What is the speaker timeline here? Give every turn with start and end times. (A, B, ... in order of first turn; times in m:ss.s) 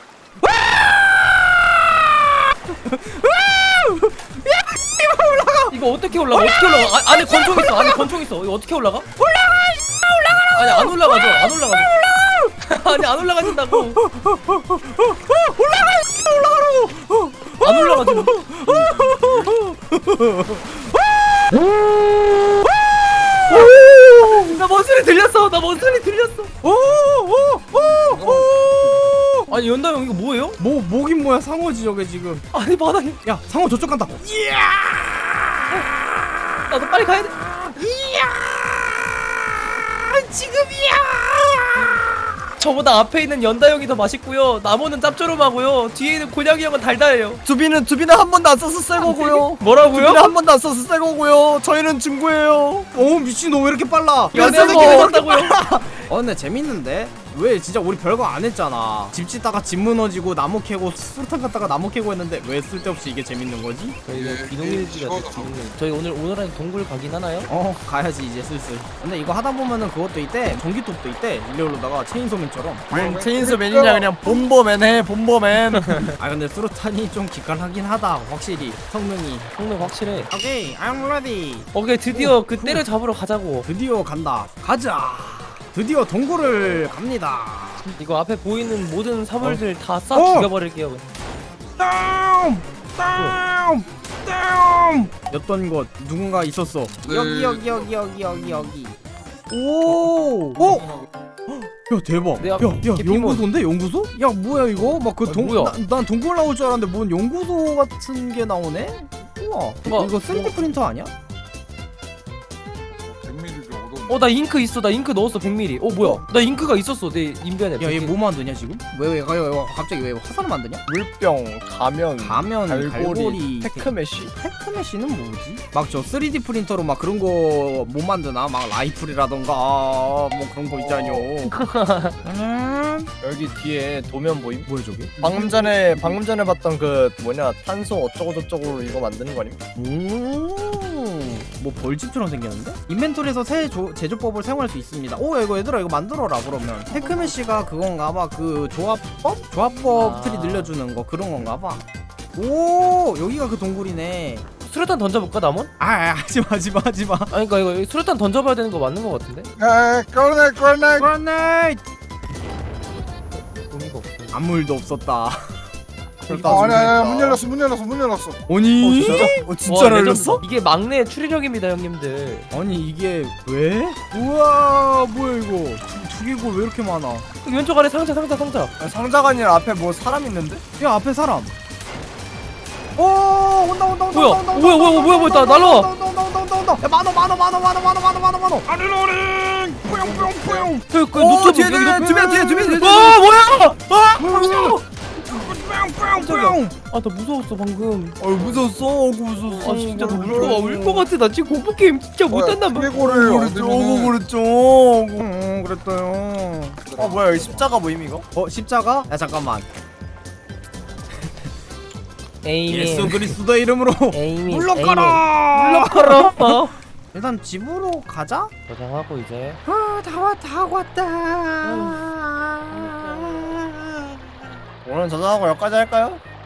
0:00.4-0:05.8 A
0:05.7-0:09.1 B
0:06.3-0:08.1 A
0:09.2-0:12.6 A
0:10.5-0:12.0 B
0:12.6-0:14.0 B
0:14.0-0:24.4 A
0:17.6-0:18.4 B
0:18.6-0:19.6 C
0:23.4-0:26.5 B
0:26.6-0:29.5 A
0:27.9-0:29.0 C
0:29.5-0:30.6 B
0:30.6-0:32.4 A
0:32.5-0:33.2 B
0:33.2-0:36.7 A
0:36.7-0:37.3 B
0:37.3-0:42.5 A
0:42.6-0:47.4 B
0:47.4-0:52.9 D
0:49.0-0:50.3 B
0:52.9-1:04.0 A
0:54.3-0:55.2 D
0:54.3-0:55.6 B
1:04.0-1:07.5 B
1:04.1-1:05.7 C
1:07.5-1:12.9 A
1:12.9-1:14.3 C
1:12.9-1:16.1 D
1:16.2-1:19.5 A
1:19.6-1:20.3 B
1:20.3-1:22.9 A
1:21.7-1:23.7 B
1:23.6-1:27.9 A
1:27.9-1:31.0 B
1:30.1-1:30.5 A
1:31.8-1:38.9 A
1:33.1-1:33.4 B
1:37.0-1:37.9 C
1:39.5-1:40.9 A
1:40.6-1:41.1 C
1:41.5-1:51.1 A
1:42.4-1:43.5 B
1:45.2-1:45.8 B
1:49.8-1:50.5 B
1:53.0-1:54.3 C
1:54.1-1:58.1 B
1:57.8-2:00.8 A
2:00.9-2:04.3 D
2:02.2-2:11.5 A
2:10.8-2:11.3 D
2:11.5-2:12.2 B
2:12.2-2:13.1 A
2:13.2-2:14.7 D
2:14.7-2:15.2 A
2:15.2-2:15.7 B
2:15.2-2:19.6 D
2:19.7-2:31.8 A
2:29.8-2:30.7 B
2:32.3-2:34.4 A
2:34.6-2:35.7 B
2:35.8-2:37.3 A
2:37.3-2:39.5 B
2:39.6-2:41.1 C
2:41.0-2:41.8 A
2:43.5-2:44.4 B
2:44.3-2:45.6 A
2:46.2-2:47.3 A
2:46.4-2:48.4 C
2:46.4-2:47.4 D
2:48.5-2:50.4 A
2:48.8-2:52.5 B
2:49.0-2:50.4 D
2:52.5-2:57.2 A
2:57.4-2:58.7 B
2:58.8-3:00.6 D
3:00.8-3:01.5 A
3:03.0-3:13.4 A
3:04.1-3:05.9 B
3:10.3-3:10.7 C
3:10.8-3:14.8 B
3:14.1-3:16.7 A
3:16.1-3:18.2 B
3:18.2-3:21.1 D
3:18.4-3:18.7 C
3:19.5-3:23.0 B
3:22.3-3:24.2 C
3:22.9-3:25.3 D
3:25.2-3:26.8 A
3:26.8-3:27.6 C
3:27.0-3:28.2 D
3:28.3-3:29.7 A
3:32.4-3:33.4 B
3:32.7-3:36.6 A
3:34.1-3:36.7 B
3:37.1-3:38.5 A
3:38.7-3:39.6 B
3:39.6-3:44.4 A
3:41.6-3:42.0 B
3:42.8-3:43.3 B
3:44.8-3:46.2 D